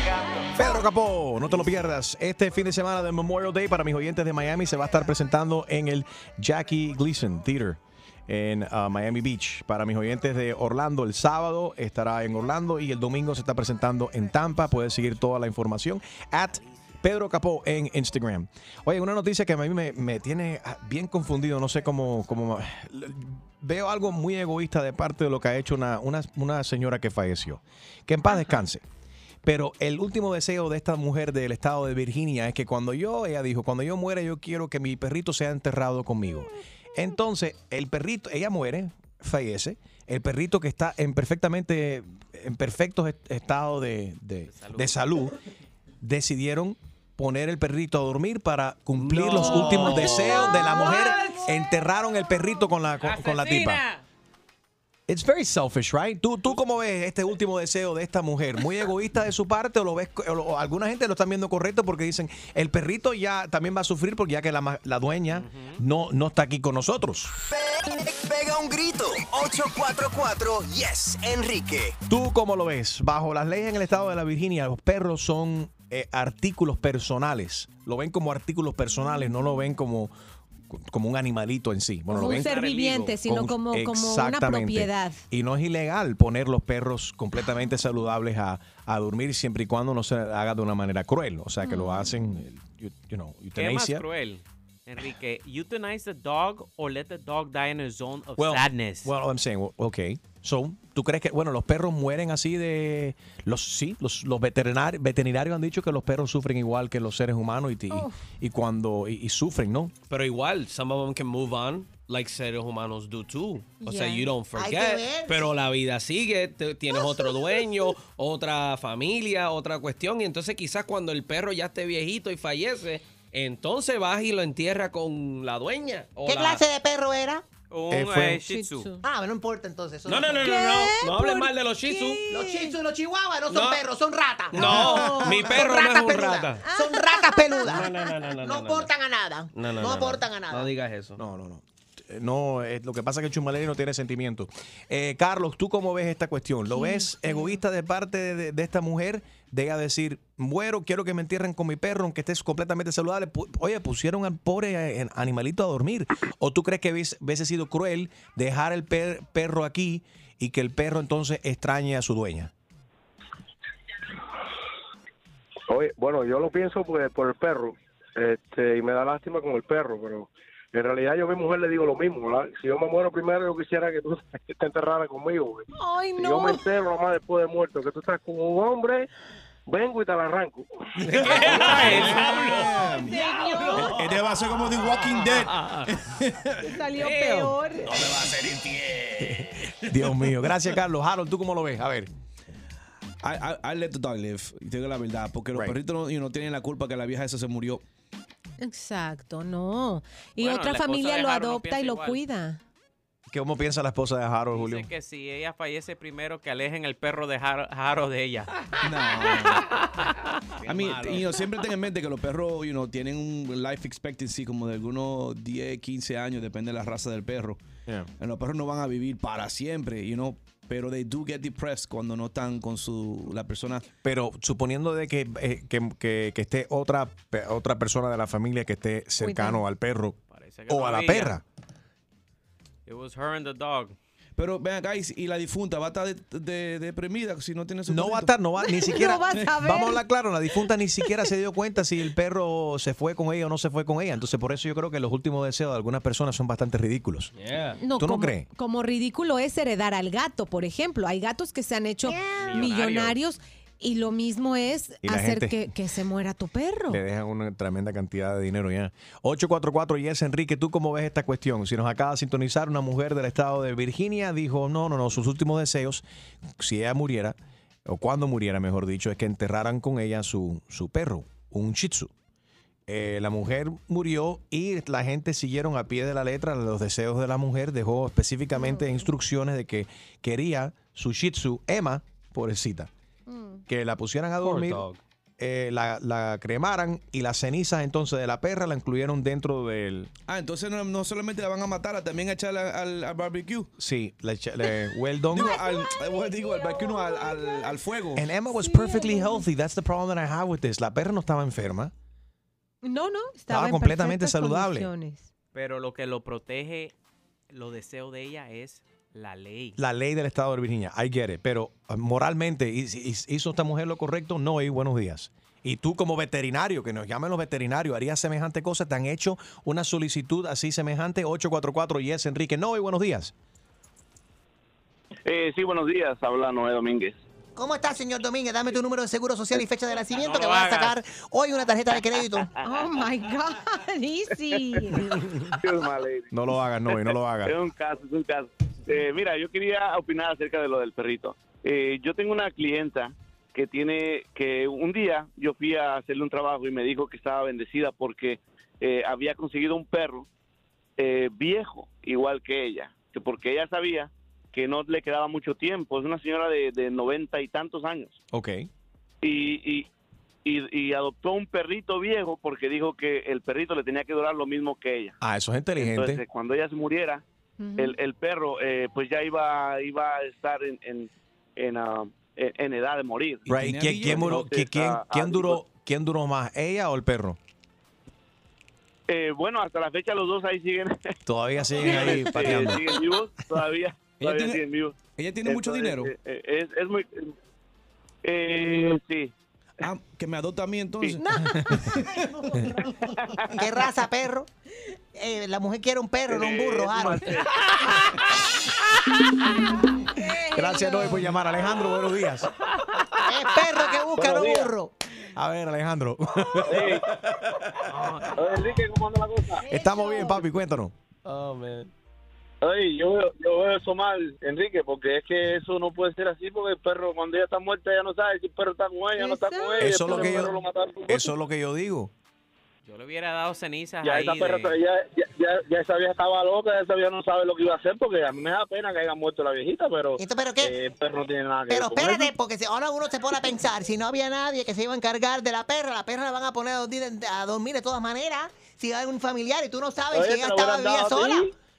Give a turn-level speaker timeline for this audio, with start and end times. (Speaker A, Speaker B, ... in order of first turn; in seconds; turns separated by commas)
Speaker A: 0.6-28.8, Speaker A: 29.4-45.3, Speaker B: 44.5-45.0, Speaker A: 46.0-53.8, Speaker C: 49.0-51.4, Speaker D: 50.1-51.0, Speaker A: 55.1-67.3, Speaker B: 65.3-65.8, Speaker E: 67.5-72.0, Speaker A: 72.1-80.1, Speaker A: 80.7-82.6, Speaker D: 82.1-85.2, Speaker B: 82.1-83.2, Speaker A: 83.2-94.0, Speaker D: 91.6-92.2, Speaker B: 93.5-99.1, Speaker A: 98.4-109.9, Speaker D: 107.9-108.2, Speaker C: 110.1-126.6, Speaker D: 113.8-114.3, Speaker F: 114.5-115.4, Speaker F: 126.2-127.4, Speaker B: 127.7-128.9, Speaker A: 127.9-128.4, Speaker D: 128.5-129.0, Speaker F: 129.0-130.5, Speaker C: 130.1-132.3, Speaker D: 130.3-132.7, Speaker F: 132.3-140.7, Speaker C: 133.5-133.8, Speaker C: 134.5-136.6, Speaker D: 134.8-135.8, Speaker D: 136.7-137.9, Speaker C: 137.6-138.9, Speaker C: 139.5-141.2, Speaker A: 141.2-162.5, Speaker D: 146.7-147.6, Speaker G: 165.7-179.1, Speaker D: 175.7-176.6, Speaker G: 179.7-180.7, Speaker H: 181.0-183.2, Speaker C: 181.0-184.1, Speaker D: 182.2-184.2, Speaker H: 183.7-185.6, Speaker C: 185.1-185.8, Speaker H: 186.1-186.5, Speaker D: 186.6-188.2, Speaker C: 187.0-189.3, Speaker A: 189.2-192.1, Speaker H: 193.2-197.8, Speaker D: 198.6-202.6, Speaker B: 200.4-202.2, Speaker A: 203.3-204.9, Speaker B: 204.5-208.5, Speaker H: 208.8-209.7, Speaker H: 210.6-217.6, Speaker C: 210.8-211.2, Speaker H: 218.2-223.9, Speaker A: 224.0-230.2, Speaker D: 229.2-229.6, Speaker B: 230.3-231.3, Speaker A: 230.7-231.4, Speaker B: 232.8-233.9, Speaker H: 234.4-238.3, Speaker A: 237.9-247.3, Speaker D: 238.7-240.0, Speaker C: 247.3-247.8, Speaker D: 247.8-257.0, Speaker A: 248.0-248.5, Speaker B: 252.3-253.2, Speaker A: 255.0-255.7, Speaker A: 256.9-266.0, Speaker A: 266.6-272.1, Speaker A: 272.9-282.9, Speaker D: 278.5-279.1, Speaker D: 283.3-283.6, Speaker A: 283.7-284.8, Speaker C: 284.4-285.0, Speaker A: 285.4-290.1, Speaker H: 290.3-293.7, Speaker A: 293.8-295.6, Speaker H: 295.3-298.3, Speaker A: 298.1-301.9, Speaker D: 298.6-299.4, Speaker D: 302.8-305.3, Speaker A: 303.5-304.9, Speaker B: 305.5-306.9, Speaker B: 307.5-309.8, Speaker A: 309.8-323.3, Speaker I: 325.2-327.2, Speaker F: 327.6-332.5, Speaker B: 330.1-330.9, Speaker D: 332.6-335.1, Speaker I: 335.6-336.3, Speaker A: 336.3-337.5, Speaker I: 336.9-350.2, Speaker I: 351.0-358.1, Speaker A: 358.3-358.7, Speaker I: 359.2-359.9, Speaker I: 360.4-365.1, Speaker A: 365.2-366.2, Speaker I: 365.8-367.2, Speaker D: 367.6-367.9, Speaker I: 367.8-373.5, Speaker A: 373.5-377.4, Speaker H: 373.5-374.5, Speaker I: 374.0-375.6, Speaker I: 379.1-381.0, Speaker A: 381.2-382.9, Speaker I: 381.7-384.9, Speaker C: 381.9-382.5, Speaker H: 384.2-384.6, Speaker H: 385.1-386.1, Speaker I: 385.4-387.2, Speaker I: 388.2-389.3, Speaker H: 389.8-391.2, Speaker H: 391.8-392.1, Speaker D: 392.2-392.6, Speaker F: 393.6-394.5, Speaker F: 395.1-398.0, Speaker I: 396.3-397.4, Speaker D: 400.2-401.2, Speaker A: 400.5-402.5, Speaker F: 403.2-404.9, Speaker I: 404.1-404.7, Speaker A: 405.3-406.9, Speaker I: 406.7-407.0, Speaker C: 408.0-408.3, Speaker I: 408.4-409.6, Speaker D: 409.7-410.4, Speaker A: 409.7-410.9, Speaker C: 411.2-411.9, Speaker I: 412.6-421.2, Speaker D: 419.1-420.5, Speaker A: 419.8-420.5, Speaker A: 421.1-422.1, Speaker B: 422.8-424.7, Speaker I: 424.0-432.3, Speaker F: 430.2-430.7, Speaker F: 431.7-441.5, Speaker I: 440.1-441.4